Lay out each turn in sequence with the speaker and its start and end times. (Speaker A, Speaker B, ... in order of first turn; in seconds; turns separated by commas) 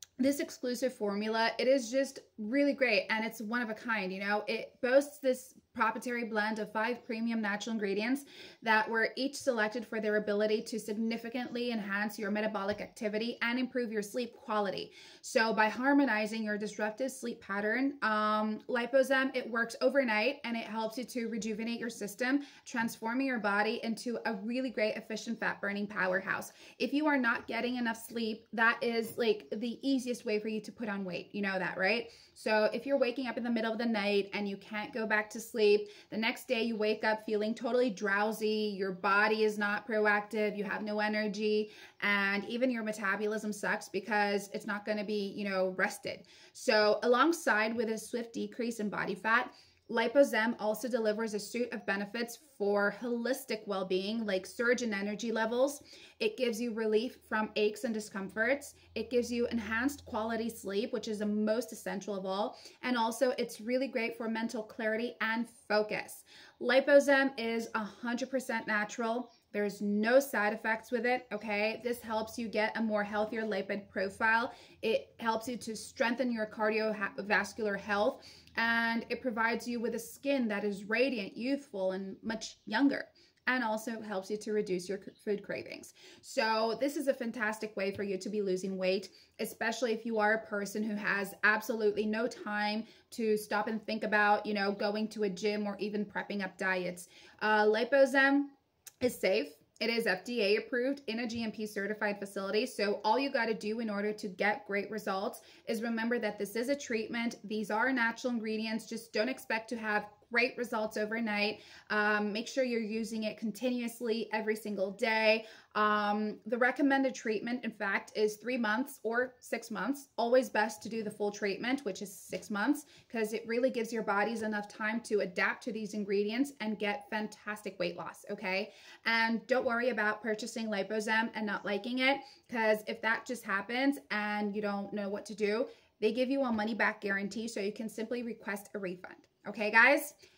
Speaker A: 0.2-140.1